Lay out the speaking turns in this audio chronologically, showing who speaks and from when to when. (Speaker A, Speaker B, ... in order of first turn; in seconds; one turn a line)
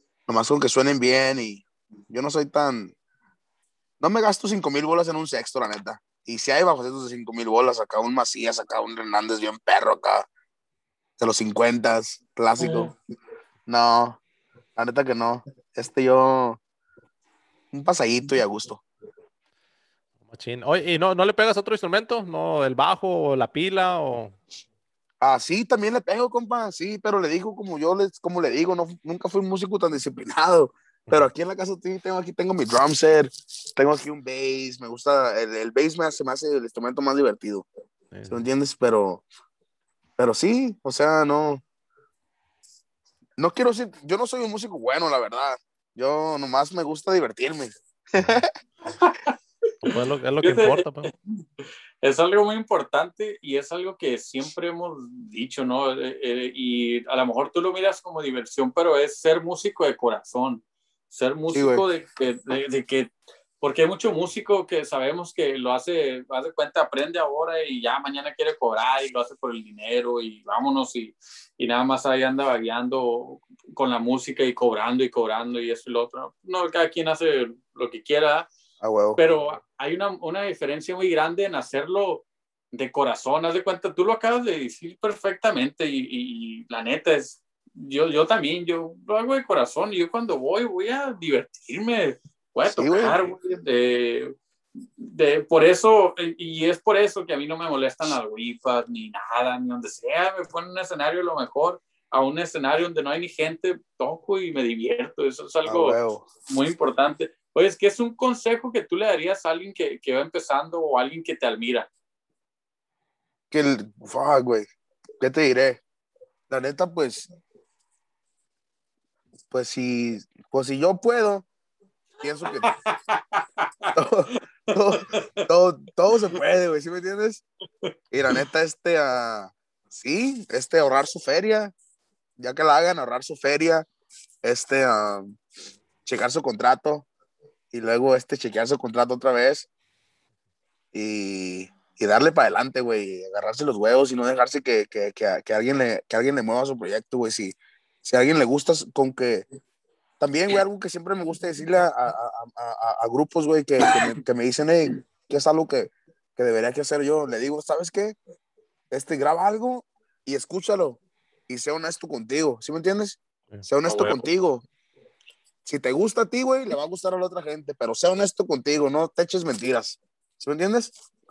Speaker A: 0.3-2.9
Speaker A: 4.0-10.3
Speaker A: 11.2-12.9
Speaker B: 12.6-12.9
Speaker A: 13.7-14.2
Speaker A: 14.8-16.6
Speaker A: 17.7-18.8
Speaker C: 20.2-24.4
Speaker A: 25.2-37.6
Speaker C: 38.1-38.4
Speaker A: 38.3-39.2
Speaker A: 40.2-41.6
Speaker A: 43.4-48.5
Speaker C: 48.2-48.4
Speaker C: 49.8-51.1
Speaker B: 50.4-51.1
Speaker B: 52.0-78.5
Speaker A: 61.5-61.8
Speaker A: 78.8-79.2
Speaker B: 79.2-94.3
Speaker A: 92.7-93.2
Speaker B: 95.0-106.0
Speaker A: 105.6-106.3
Speaker B: 106.5-111.9
Speaker A: 113.5-114.7
Speaker A: 115.2-115.8
Speaker A: 116.5-117.3
Speaker A: 119.5-121.5
Speaker A: 122.2-122.7
Speaker B: 122.5-123.9
Speaker A: 123.9-127.4
Speaker B: 124.7-125.2
Speaker A: 128.1-131.7
Speaker A: 132.4-133.9
Speaker A: 134.4-135.4
Speaker A: 136.1-137.1
Speaker A: 137.7-139.7
Speaker A: 140.9-149.4
Speaker A: 150.2-158.2
Speaker A: 158.9-164.6
Speaker B: 163.9-164.2
Speaker A: 165.6-170.9